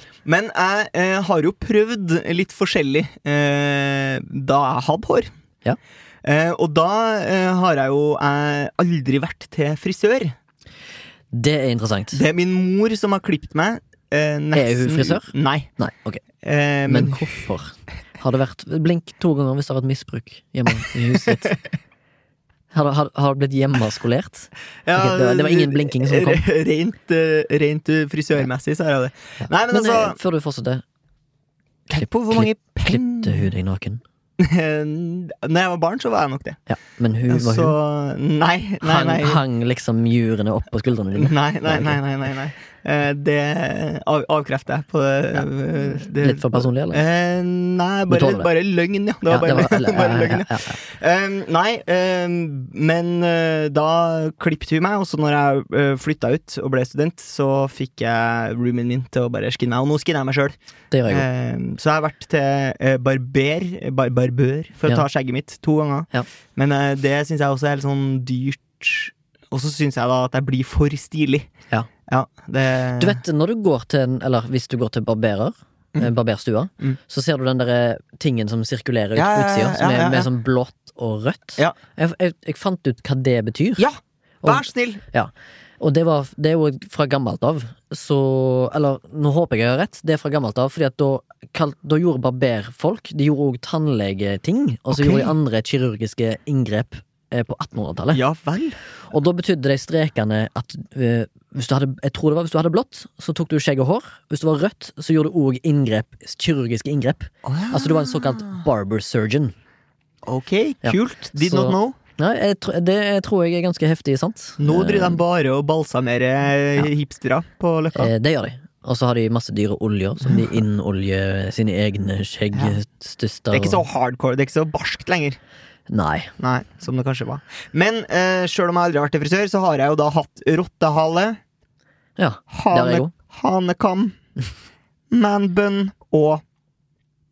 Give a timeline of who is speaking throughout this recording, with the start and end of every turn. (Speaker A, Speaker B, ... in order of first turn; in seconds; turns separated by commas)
Speaker A: 0.2-5.3, Speaker A: 6.2-10.3, Speaker B: 11.3-12.2, Speaker A: 12.1-15.7, Speaker B: 14.5-16.2, Speaker A: 16.4-17.4, Speaker B: 16.9-21.6, Speaker B: 22.7-26.4, Speaker A: 24.8-30.2, Speaker B: 29.4-30.8, Speaker A: 31.9-33.5, Speaker B: 31.9-34.0, Speaker A: 34.4-36.6, Speaker B: 36.7-37.8, Speaker A: 37.3-39.4, Speaker B: 38.8-42.0, Speaker A: 41.1-60.5, Speaker B: 45.9-47.0, Speaker B: 48.1-48.5, Speaker B: 49.3-50.8, Speaker B: 60.9-61.2, Speaker A: 61.1-71.5, Speaker A: 72.1-73.2, Speaker B: 73.0-83.9, Speaker A: 79.1-80.3, Speaker A: 83.8-85.0, Speaker B: 84.4-98.2, Speaker A: 94.9-95.3, Speaker A: 98.1-98.8, Speaker B: 99.1-109.5, Speaker A: 107.4-108.6, Speaker A: 110.2-112.0, Speaker B: 110.8-115.2, Speaker A: 114.6-118.1, Speaker B: 118.0-123.8, Speaker A: 120.3-120.5, Speaker A: 123.5-125.4, Speaker B: 125.9-126.3, Speaker A: 126.4-131.4, Speaker B: 132.2-133.1, Speaker A: 132.5-134.2, Speaker A: 135.1-136.4